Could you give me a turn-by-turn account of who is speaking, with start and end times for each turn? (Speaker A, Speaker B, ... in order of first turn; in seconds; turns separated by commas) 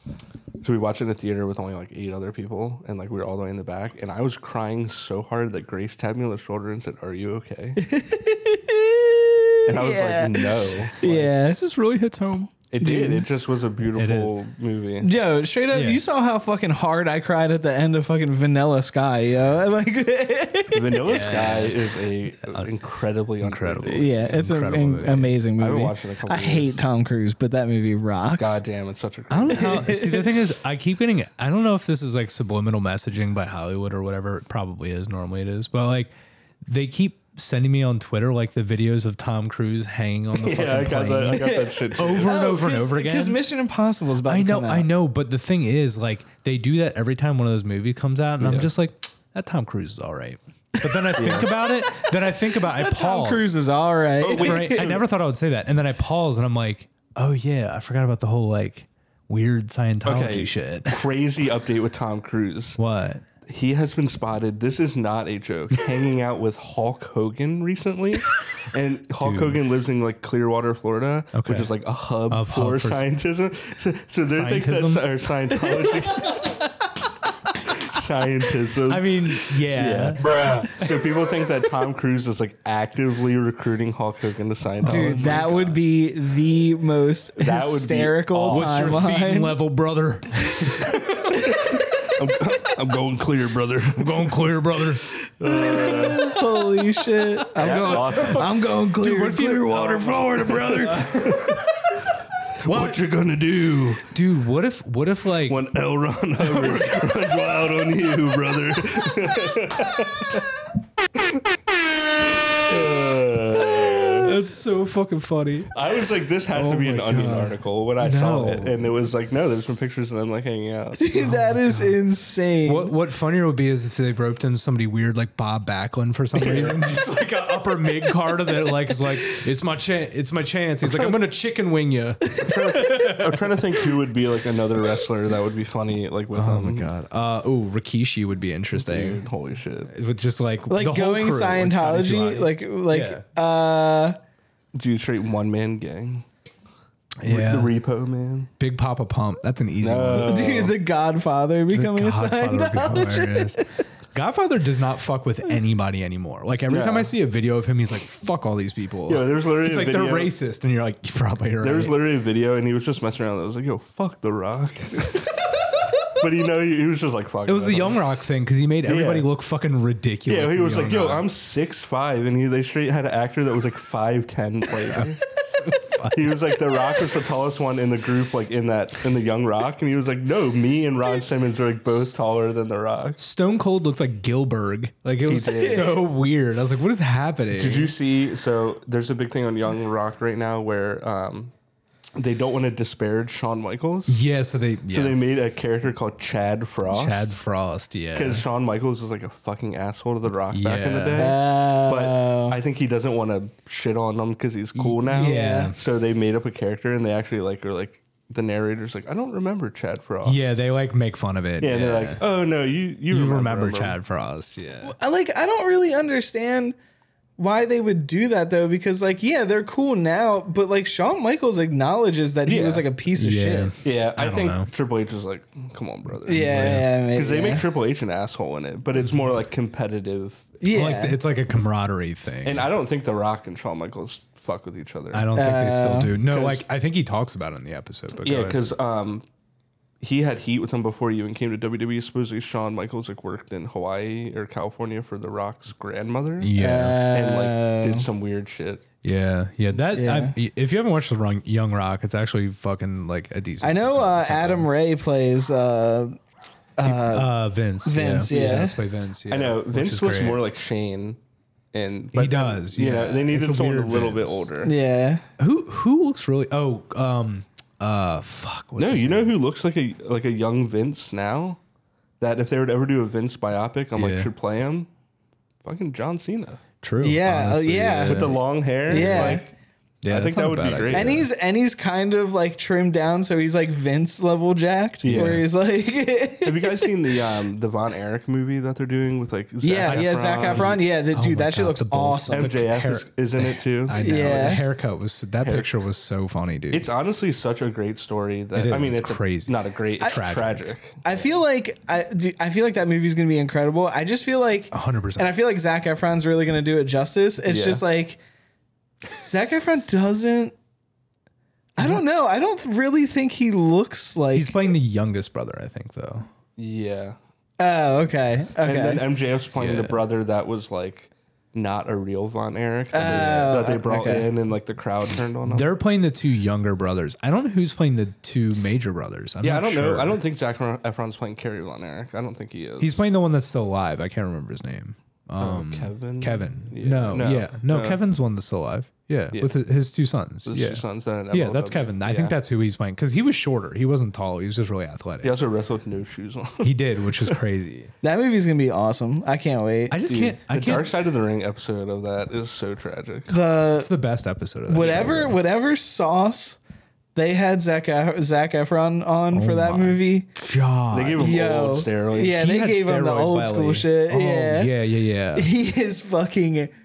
Speaker A: 0.6-7.8, Speaker B: 7.8-11.6, Speaker A: 9.7-11.2, Speaker C: 11.0-12.5, Speaker A: 12.7-15.1, Speaker B: 12.8-13.3, Speaker C: 13.9-14.4, Speaker B: 15.0-21.3, Speaker C: 15.7-16.0, Speaker A: 20.7-24.1, Speaker C: 21.1-21.8, Speaker C: 22.4-22.7, Speaker C: 23.4-25.4, Speaker B: 23.9-28.6, Speaker A: 25.6-26.8, Speaker A: 28.4-29.9, Speaker C: 29.3-36.1, Speaker B: 29.5-30.4, Speaker C: 36.7-43.4, Speaker A: 40.3-42.4, Speaker B: 41.3-44.9, Speaker C: 44.2-53.5, Speaker A: 48.4-48.7, Speaker B: 50.8-52.1, Speaker A: 51.2-51.5, Speaker B: 52.7-54.9, Speaker A: 54.2-55.1, Speaker C: 54.3-61.1, Speaker A: 60.0-62.8, Speaker C: 62.8-63.2, Speaker A: 63.5-76.6, Speaker C: 69.2-69.6, Speaker C: 71.3-71.7, Speaker C: 72.3-73.1, Speaker C: 74.3-75.2, Speaker A: 77.7-85.5, Speaker C: 78.8-81.0, Speaker C: 84.8-85.8, Speaker B: 84.8-89.5, Speaker A: 87.4-89.0, Speaker C: 88.5-91.7, Speaker A: 92.0-94.6, Speaker C: 94.0-95.1, Speaker A: 95.4-96.3, Speaker B: 95.4-101.1, Speaker C: 96.8-101.8, Speaker A: 97.5-98.6, Speaker A: 100.4-101.6, Speaker A: 102.6-104.2, Speaker C: 102.7-103.0, Speaker C: 104.1-105.6, Speaker A: 105.5-110.4, Speaker C: 106.5-106.8, Speaker A: 112.5-114.4, Speaker C: 114.1-115.8, Speaker A: 115.7-121.0, Speaker C: 116.5-118.9, Speaker B: 121.0-122.9, Speaker C: 121.1-122.0, Speaker C: 122.6-133.5, Speaker A: 126.3-126.8, Speaker A: 130.8-131.2, Speaker B: 132.3-132.5, Speaker A: 132.4-136.9, Speaker C: 136.3-139.2, Speaker A: 138.7-139.9, Speaker C: 139.9-143.2, Speaker B: 140.7-144.2, Speaker A: 144.8-146.2, Speaker C: 147.2-147.7, Speaker A: 147.2-148.5, Speaker C: 148.6-150.4, Speaker A: 149.8-150.8, Speaker B: 150.2-153.6, Speaker C: 151.7-161.9, Speaker A: 156.7-157.1, Speaker A: 159.1-160.3, Speaker A: 161.6-165.5, Speaker A: 166.1-168.0, Speaker C: 167.5-171.3, Speaker A: 168.8-169.3, Speaker A: 170.3-175.2, Speaker C: 174.9-176.4, Speaker A: 176.1-183.2, Speaker C: 183.2-187.9, Speaker A: 185.3-186.0, Speaker A: 187.5-191.5, Speaker A: 192.2-194.2, Speaker C: 194.1-195.2, Speaker A: 194.9-197.3, Speaker C: 196.9-198.4, Speaker A: 198.2-210.6, Speaker C: 200.5-201.3, Speaker B: 201.2-202.6, Speaker C: 204.8-205.8, Speaker B: 205.1-205.7, Speaker C: 210.2-212.2, Speaker A: 211.6-214.0, Speaker C: 213.1-214.9, Speaker B: 214.8-216.8, Speaker B: 217.4-223.7, Speaker A: 222.5-222.8, Speaker C: 223.1-224.7, Speaker A: 223.8-230.6, Speaker B: 226.3-227.6, Speaker C: 226.3-226.9, Speaker C: 229.0-229.3, Speaker B: 230.6-231.2, Speaker C: 230.7-232.7, Speaker A: 232.4-235.3, Speaker C: 235.1-238.7, Speaker B: 235.3-236.1, Speaker A: 236.3-236.7, Speaker A: 238.2-239.3, Speaker A: 240.0-246.5, Speaker C: 246.4-247.0, Speaker B: 246.6-248.1, Speaker A: 247.1-248.8, Speaker C: 249.0-254.7, Speaker B: 249.9-250.3, Speaker B: 253.6-256.2, Speaker B: 256.8-257.3, Speaker C: 256.8-260.4, Speaker B: 257.9-258.8, Speaker A: 258.3-258.7, Speaker A: 259.3-261.2, Speaker A: 261.7-264.7, Speaker C: 262.1-264.5, Speaker B: 264.6-265.2, Speaker C: 265.4-269.3, Speaker A: 268.8-271.6, Speaker A: 272.2-274.9, Speaker C: 274.0-274.3, Speaker A: 275.6-276.6, Speaker C: 276.8-279.4, Speaker B: 277.0-278.4, Speaker A: 278.1-279.5, Speaker B: 278.9-279.4, Speaker C: 280.0-281.3, Speaker A: 280.1-281.2, Speaker B: 280.9-286.9, Speaker A: 285.0-285.4, Speaker C: 285.1-285.5, Speaker A: 286.4-290.8, Speaker B: 289.6-292.5, Speaker C: 289.9-296.9, Speaker A: 292.3-294.6, Speaker B: 294.0-294.6, Speaker A: 295.4-295.7, Speaker A: 296.7-301.0, Speaker C: 298.6-300.7, Speaker B: 301.0-308.2, Speaker C: 304.7-305.4, Speaker A: 307.4-307.8, Speaker B: 309.2-310.5, Speaker B: 311.8-314.6, Speaker C: 314.3-316.3, Speaker A: 316.6-317.2, Speaker B: 317.6-319.0, Speaker A: 318.6-325.7, Speaker C: 319.6-320.0, Speaker B: 322.9-324.3, Speaker C: 325.5-330.2, Speaker A: 329.4-333.1, Speaker C: 332.8-345.4, Speaker A: 335.4-338.0, Speaker A: 340.5-342.4, Speaker A: 345.2-347.4, Speaker C: 346.6-347.9, Speaker B: 348.0-350.0, Speaker C: 349.9-350.9, Speaker A: 350.1-353.4, Speaker B: 353.3-353.9, Speaker C: 353.8-355.4, Speaker B: 354.7-356.6, Speaker A: 354.8-355.2, Speaker B: 357.1-360.3, Speaker C: 359.3-361.2, Speaker A: 360.9-362.4, Speaker B: 361.2-364.7, Speaker C: 362.3-365.5, Speaker B: 365.4-366.7